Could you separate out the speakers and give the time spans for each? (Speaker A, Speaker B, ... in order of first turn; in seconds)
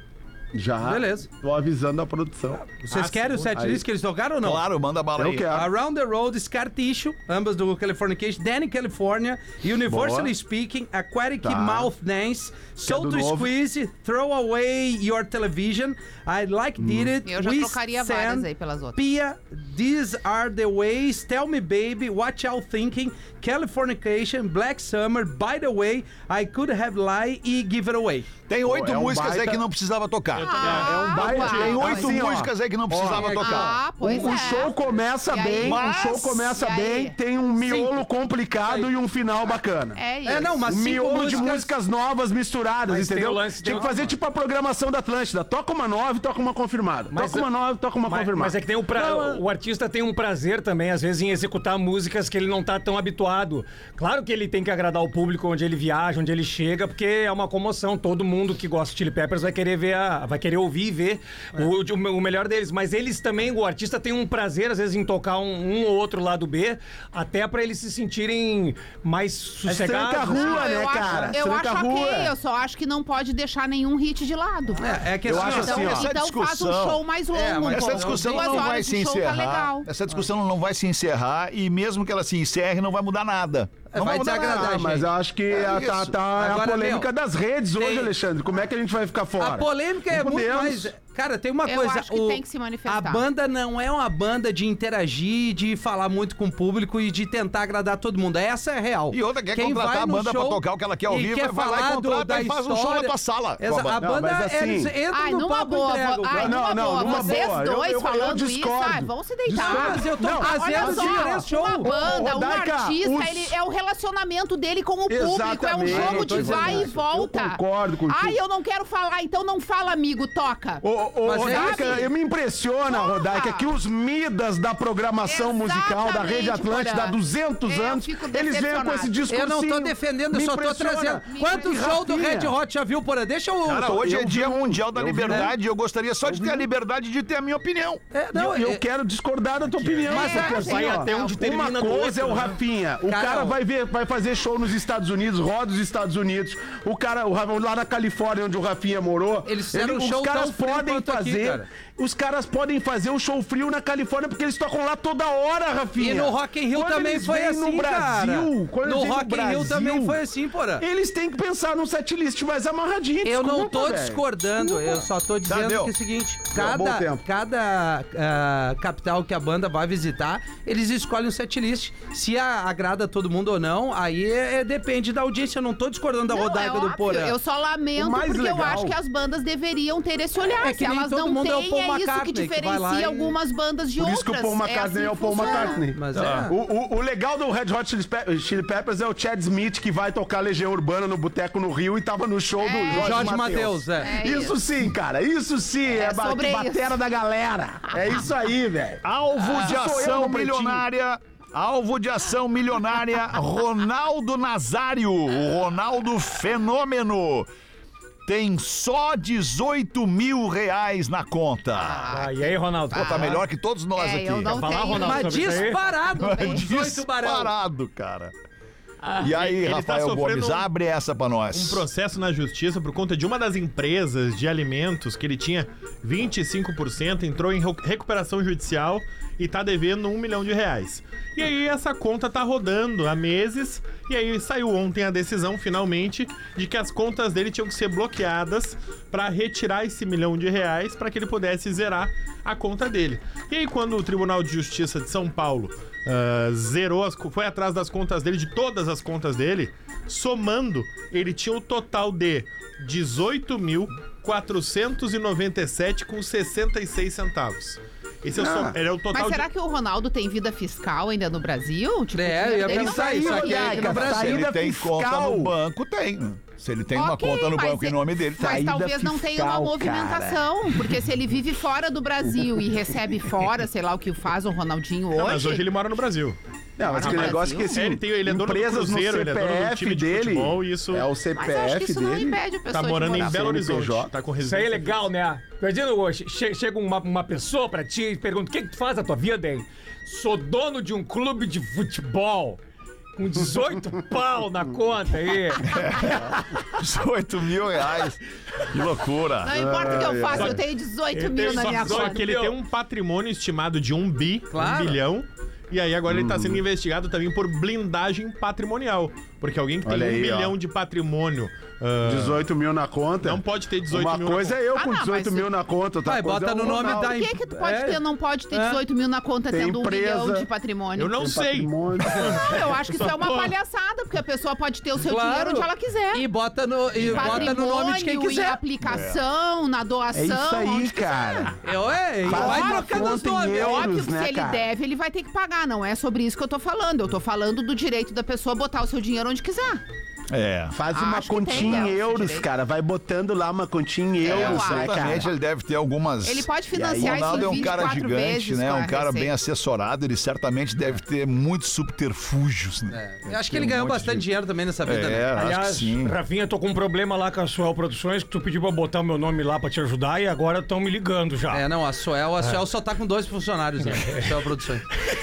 Speaker A: 0.5-2.6, 3.5-3.8, 5.2-5.7, 9.9-10.3, 11.4-11.9, 12.8-13.5, 16.8-17.1, 28.6-29.6, 30.6-33.5, 34.0-49.4, 69.6-72.3, 75.2-76.1, 84.2-90.9, 104.0-104.9, 106.3-113.5, 115.1-118.4, 120.8-132.6, 133.7-135.5, 136.2-136.7, 138.3-160.2, 160.8-165.1, 166.5-167.2, 178.0-179.0, 184.0-200.9, 258.3-258.8, 262.6-265.5, 268.4-270.9, 276.8-282.4, 283.1-284.1, 299.5-300.6, 306.1-306.6, 309.8-310.5, 312.0-317.2, 319.5-320.5, 321.2-322.4, 330.1-331.6, 332.2-334.7, 340.7-345.3, 346.7-347.9
Speaker B: 0.8-1.3, 2.9-4.6, 5.5-28.3, 33.1-34.4, 37.6-38.0, 40.2-41.7, 74.8-76.0, 77.3-78.7, 83.9-85.1, 86.3-87.1, 87.8-88.1, 89.4-107.5, 109.5-111.9, 115.9-116.9, 121.2-122.1, 129.3-134.0, 138.1-138.8, 139.8-140.5, 143.1-143.6, 149.5-151.7, 156.0-160.8, 163.2-177.4, 180.6-183.3, 185.4-186.5, 192.9-194.1, 215.0-217.5, 262.1-264.4, 304.5-305.0, 316.0-318.8, 325.0-328.6, 331.6-333.9, 352.9-355.3, 361.5-364.9
Speaker C: 2.9-3.5, 30.3-31.7, 219.2-220.7, 221.5-259.5, 275.1-276.4, 276.9-281.1, 282.7-285.1, 300.4-300.6, 301.4-312.4, 313.2-314.6, 321.0-323.5
Speaker D: 4.4-5.5, 28.5-33.8, 35.6-36.5, 75.2-77.0, 77.7-84.8, 85.5-86.1, 99.1-104.0, 133.7-138.0, 165.5-165.9, 186.1-186.5, 199.0-207.5, 208.2-212.1, 212.9-214.6, 216.2-218.3, 219.2-221.9, 263.7-268.7, 295.6-299.6, 327.1-327.4, 328.8-329.2, 340.3-340.8, 341.6-341.8, 344.2-354.2, 354.8-356.2
Speaker E: 17.2-19.0, 30.4-32.2, 33.4-37.2, 40.0-40.6, 70.2-79.9, 91.6-93.2, 105.1-120.8, 121.4-122.1, 122.9-123.7, 125.2-129.2, 131.3-131.8, 140.1-141.4, 176.3-185.8, 192.6-193.4, 194.0-194.6, 195.9-197.0, 211.8-213.4, 213.9-216.7, 259.1-264.1, 266.9-275.6, 276.8-277.8, 281.4-283.5, 299.4-302.3, 314.7-315.5, 316.6-321.2, 322.0-326.2, 327.0-331.5, 332.3-339.8, 340.9-342.5, 344.2-345.2, 346.2-349.3
Speaker F: 42.9-44.1, 47.1-47.5, 48.1-70.6, 140.1-142.6, 212.1-213.4, 214.4-215.8, 284.4-292.6, 293.1-296.0, 301.1-302.6, 355.3-361.6, 363.9-364.2